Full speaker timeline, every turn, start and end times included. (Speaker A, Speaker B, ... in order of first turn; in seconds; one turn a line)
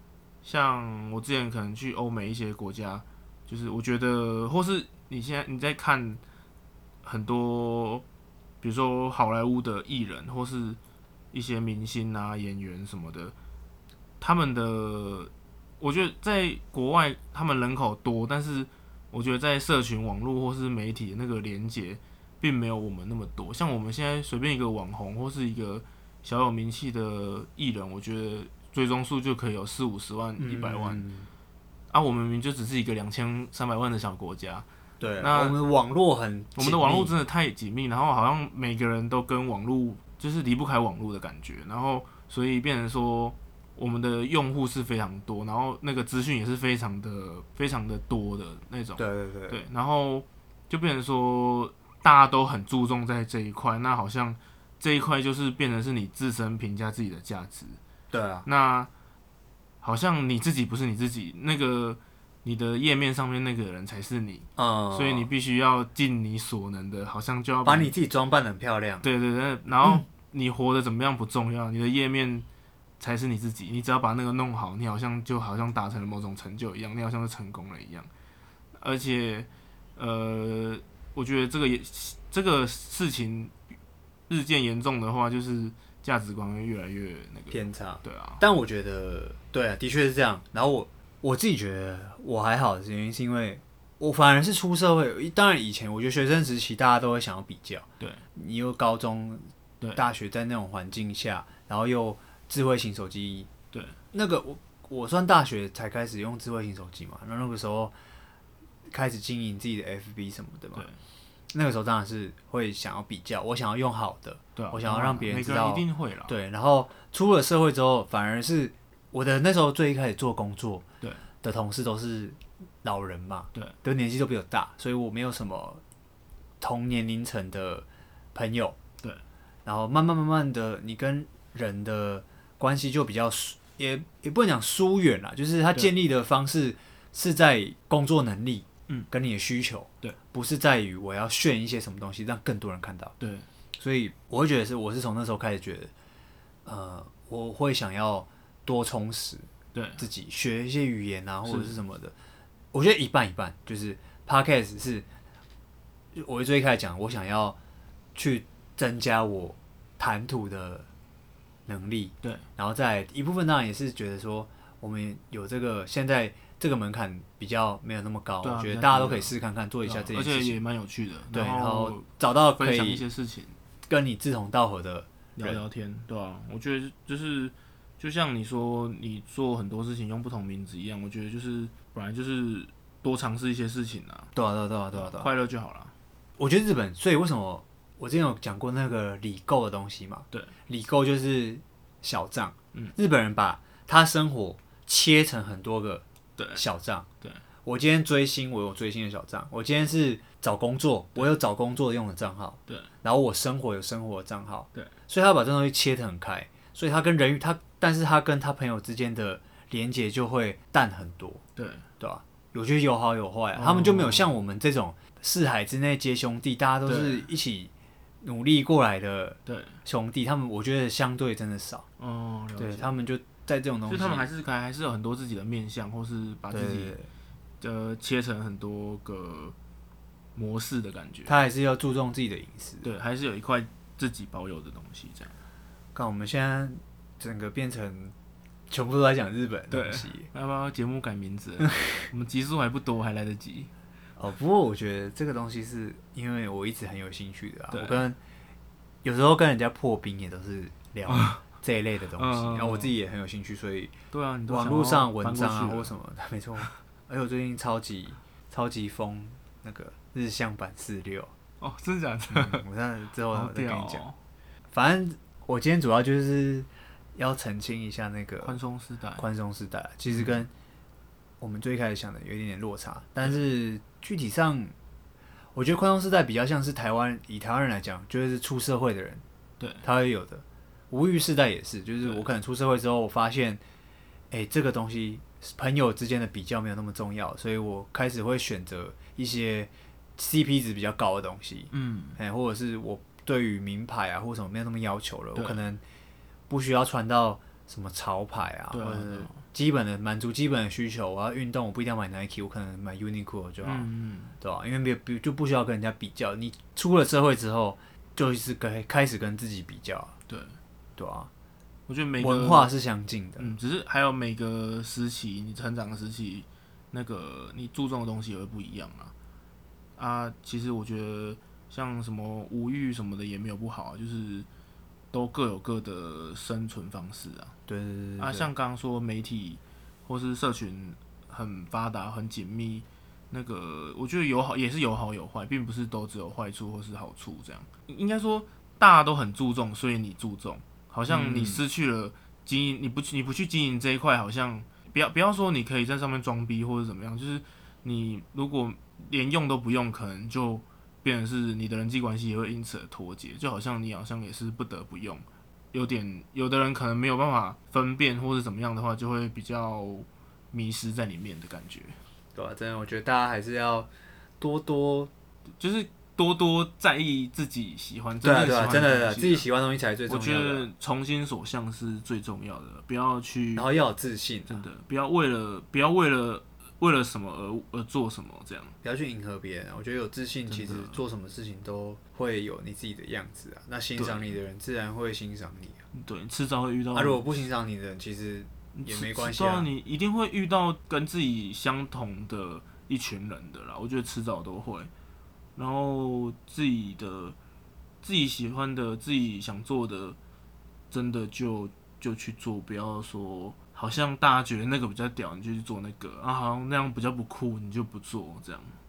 Speaker A: 0.4-6.2
Speaker A: 7.0-8.0
Speaker A: 8.6-10.8
Speaker A: 11.3-13.3
Speaker A: 14.2-31.0
Speaker B: 30.4-31.3
Speaker A: 31.9-34.6
Speaker B: 35.0-37.1
Speaker A: 35.2-35.6
Speaker A: 36.5-57.8
Speaker B: 49.0-49.6
Speaker B: 58.1-58.5
Speaker A: 58.5-58.9
Speaker A: 59.8-67.9
Speaker B: 64.6-65.3
Speaker B: 67.6-69.1
Speaker A: 69.0-72.5
Speaker A: 73.0-78.1
Speaker A: 78.8-83.5
Speaker A: 84.3-88.4
Speaker B: 87.5-103.5
Speaker A: 98.0-98.2
Speaker A: 103.7-104.0
Speaker B: 104.1-107.9
Speaker B: 108.9-110.9
Speaker A: 110.7-111.0
Speaker B: 111.5-120.8
Speaker A: 114.5-116.3
Speaker B: 121.4-125.8
Speaker B: 126.6-128.8
Speaker B: 129.7-143.1
Speaker A: 143.2-143.5
Speaker B: 143.8-145.9
Speaker B: 146.6-149.5
Speaker A: 149.7-150.0
Speaker B: 150.0-152.1
Speaker A: 151.4-151.8
Speaker B: 152.7-155.0
Speaker B: 156.1-157.6
Speaker B: 158.1-160.9
Speaker B: 161.7-170.6
Speaker A: 168.4-173.6
Speaker B: 171.3-173.0
Speaker B: 173.9-175.6
Speaker A: 175.3-184.3
Speaker B: 184.3-185.3
Speaker A: 184.9-185.9
Speaker B: 186.4-196.0
Speaker A: 196.4-196.6
Speaker B: 196.5-197.1
Speaker B: 197.6-211.4
Speaker A: 211.6-211.8
Speaker B: 212.0-217.7
Speaker A: 213.5-214.3
Speaker A: 216.8-217.3
Speaker B: 218.2-221.8
Speaker A: 219.4-219.8
Speaker A: 222.0-222.9
Speaker B: 222.6-224.3
Speaker A: 223.9-226.9
Speaker B: 226.5-227.1
Speaker A: 227.6-229.5
Speaker A: 230.3-231.3
Speaker B: 231.2-232.9
Speaker A: 232.8-235.4
Speaker B: 235.9-238.1
Speaker B: 238.7-240.3
Speaker A: 239.7-243.7
Speaker B: 244.2-248.2
Speaker A: 247.7-248.0
Speaker B: 249.0-253.9
Speaker A: 251.1-251.4
Speaker A: 252.2-252.9
Speaker A: 254.1-255.9
Speaker B: 254.5-261.3
Speaker A: 261.6-262.6
Speaker B: 262.3-264.0
Speaker A: 263.3-264.2
Speaker B: 264.7-268.6
Speaker A: 268.4-269.2
Speaker B: 269.2-270.5
Speaker A: 270.1-270.4
Speaker B: 271.4-274.7
Speaker B: 275.5-279.2
Speaker A: 279.6-279.9
Speaker B: 279.8-283.6
Speaker B: 284.3-295.8
Speaker A: 291.7-292.2
Speaker A: 295.3-295.6
Speaker B: 296.5-303.9
Speaker A: 298.7-299.4
Speaker A: 303.6-304.4
Speaker B: 304.4-310.1
Speaker A: 310.3-310.6
Speaker B: 311.0-311.3
Speaker A: 311.9-312.7
Speaker B: 312.2-313.5
Speaker A: 313.4-319.1
Speaker A: 320.0-324.5
Speaker A: 325.1-327.5
Speaker B: 327.7-328.5
Speaker A: 328.2-362.0
Speaker B: 341.1-341.6
Speaker B: 362.3-363.9
Speaker B: 364.4-365.1
Speaker A: 365.6-369.5
Speaker B: 368.2-370.7
Speaker A: 370.1-373.7
Speaker B: 373.5-374.6
Speaker A: 374.5-378.8
Speaker B: 378.8-385.8
Speaker A: 380.5-381.0
Speaker A: 383.9-384.4
Speaker A: 385.9-387.5
Speaker B: 386.9-389.7
Speaker A: 388.7-394.9
Speaker A: 395.6-397.4
Speaker A: 398.0-400.2
Speaker A: 400.9-408.8